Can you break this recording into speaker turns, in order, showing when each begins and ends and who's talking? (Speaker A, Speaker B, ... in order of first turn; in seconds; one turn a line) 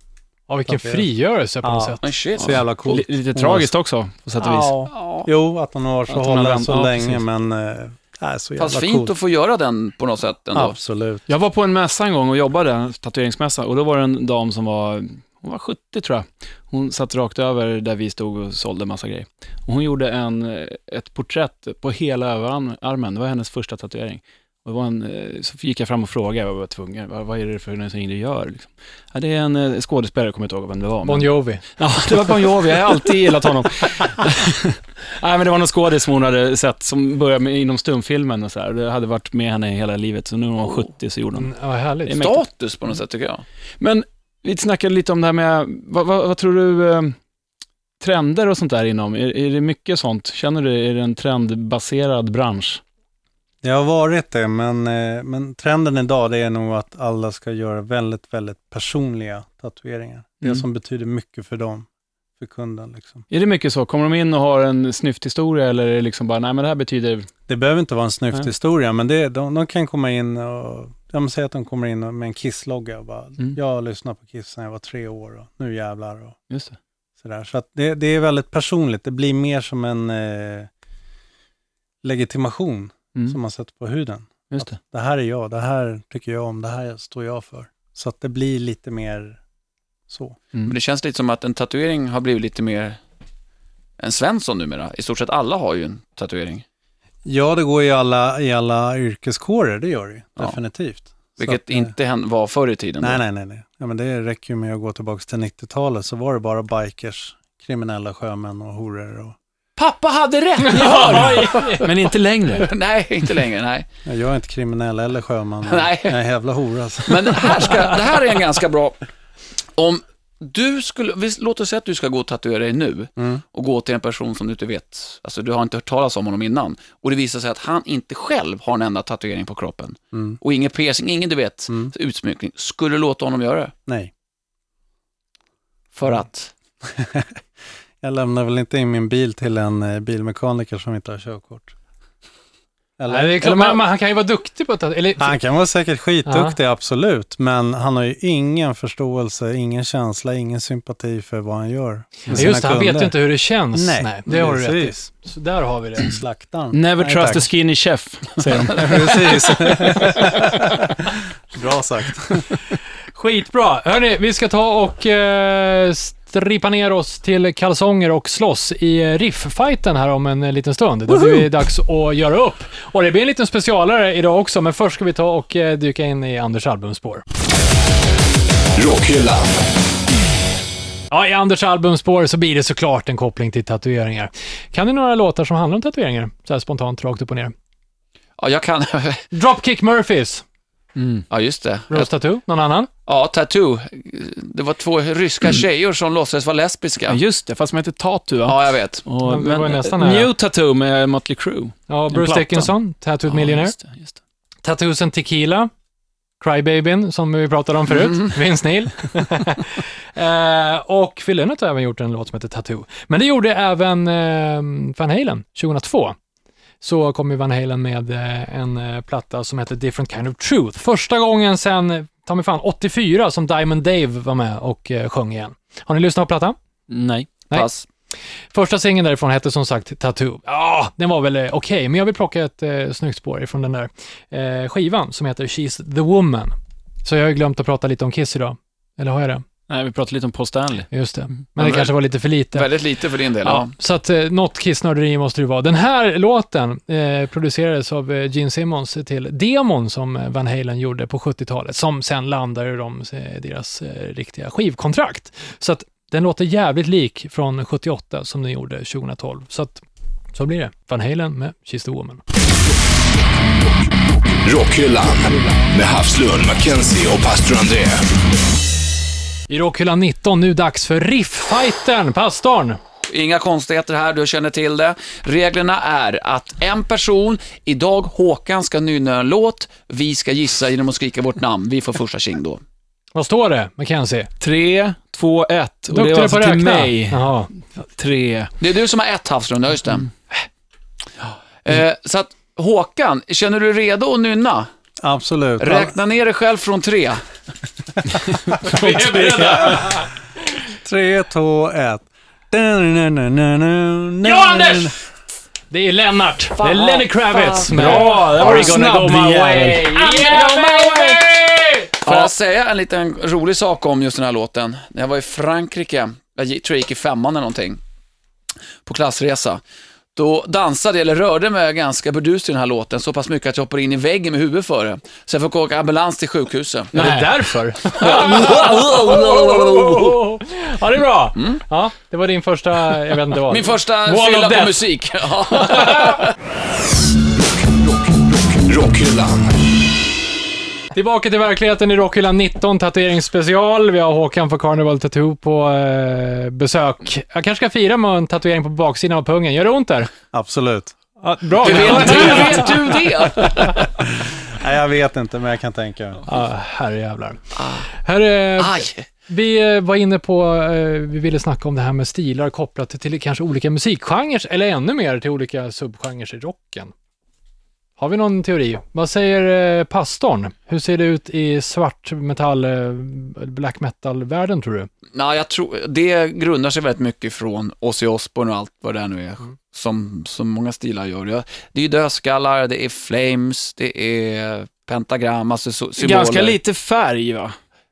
Speaker A: 0.5-2.0
Speaker B: 0.7-1.1
Speaker B: 1.6-3.7
Speaker C: 2.0-2.6
Speaker D: 2.4-4.8
Speaker B: 4.4-9.1
Speaker C: 4.9-5.3
Speaker D: 6.1-7.2
Speaker C: 8.6-10.8
Speaker B: 10.5-11.2
Speaker D: 11.3-41.5
Speaker A: 31.1-31.6
Speaker A: 41.4-42.2
Speaker D: 42.1-42.4
Speaker C: 42.1-43.4
Speaker D: 43.8-47.2
Speaker D: 48.0-52.8
Speaker B: 53.6-61.9
Speaker B: 62.4-63.2
Speaker D: 63.3-67.3
Speaker B: 67.5-76.4
Speaker D: 76.5-76.8
Speaker B: 77.2-80.7
Speaker B: 82.0-89.4
Speaker B: 90.1-90.4
Speaker C: 90.7-93.0
Speaker C: 94.0-96.7
Speaker B: 97.2-101.9
Speaker C: 101.4-103.2
Speaker B: 103.0-109.4
Speaker A: 109.8-111.9
Speaker C: 110.7-111.8
Speaker D: 110.7-112.7
Speaker C: 112.5-113.9
Speaker B: 114.0-117.9
Speaker C: 115.7-116.2
Speaker C: 117.1-119.0
Speaker C: 119.8-133.7
Speaker B: 123.2-123.4
Speaker B: 130.1-130.4
Speaker C: 135.9-136.5
Speaker B: 136.8-137.4
Speaker B: 138.0-141.7
Speaker B: 143.0-143.8
Speaker A: 143.1-145.4
Speaker B: 145.2-153.2
Speaker A: 146.2-146.6
Speaker A: 152.3-156.1
Speaker B: 153.7-155.1
Speaker B: 156.0-157.5
Speaker D: 156.7-160.4
Speaker B: 158.8-162.5
Speaker A: 163.1-177.2
Speaker E: 178.8-179.6
Speaker A: 181.1-187.5
Speaker C: 188.4-189.2
Speaker A: 189.3-190.4
Speaker D: 191.0-191.2
Speaker C: 191.3-192.1
Speaker A: 191.9-192.9
Speaker C: 193.1-197.2
Speaker D: 197.1-202.7
Speaker C: 198.5-199.1
Speaker A: 199.2-200.3
Speaker A: 201.9-203.8
Speaker D: 203.3-204.2
Speaker A: 204.6-205.7
Speaker A: 206.4-216.2
Speaker A: 216.8-226.6
Speaker D: 226.9-227.3
Speaker C: 227.5-227.9
Speaker A: 228.5-239.4
Speaker D: 239.7-240.9
Speaker A: 240.9-242.8
Speaker C: 241.6-241.9
Speaker C: 242.5-243.7
Speaker A: 243.4-259.8
Speaker A: 260.3-262.2
Speaker E: 264.4-268.1
Speaker A: 269.5-272.8
Speaker C: 273.1-282.6
Speaker A: 283.1-284.3
Speaker D: 284.4-288.5
Speaker A: 285.9-287.5
Speaker C: 288.6-290.1
Speaker C: 291.6-294.7
Speaker B: 295.0-295.9
Speaker C: 295.6-297.2
Speaker A: 298.6-300.1
Speaker B: 298.7-300.0
Speaker B: 300.8-305.0
Speaker A: 304.2-304.9
Speaker A: 305.7-312.3
Speaker C: 306.6-308.8
Speaker D: 307.7-310.1
Speaker C: 309.8-311.3
Speaker C: 312.0-317.8
Speaker C: 318.8-319.6
Speaker C: 320.1-326.9
Speaker D: 326.9-328.2
Speaker A: 326.9-334.9
Speaker C: 327.9-330.2
Speaker C: 331.4-331.6
Speaker C: 333.5-336.3
Speaker A: 335.5-336.2
Speaker E: 337.5-339.6
Speaker A: 340.9-350.1
Speaker B: 350.3-350.9
Speaker A: 351.2-352.9
Speaker C: 351.6-353.9
Speaker B: 354.2-356.2
Speaker A: 356.3-357.4
Speaker C: 357.6-357.8
Speaker A: 358.0-366.9
Speaker C: 358.6-359.1
Speaker A: 368.0-374.9
Speaker C: 375.1-386.6
Speaker D: 386.0-387.6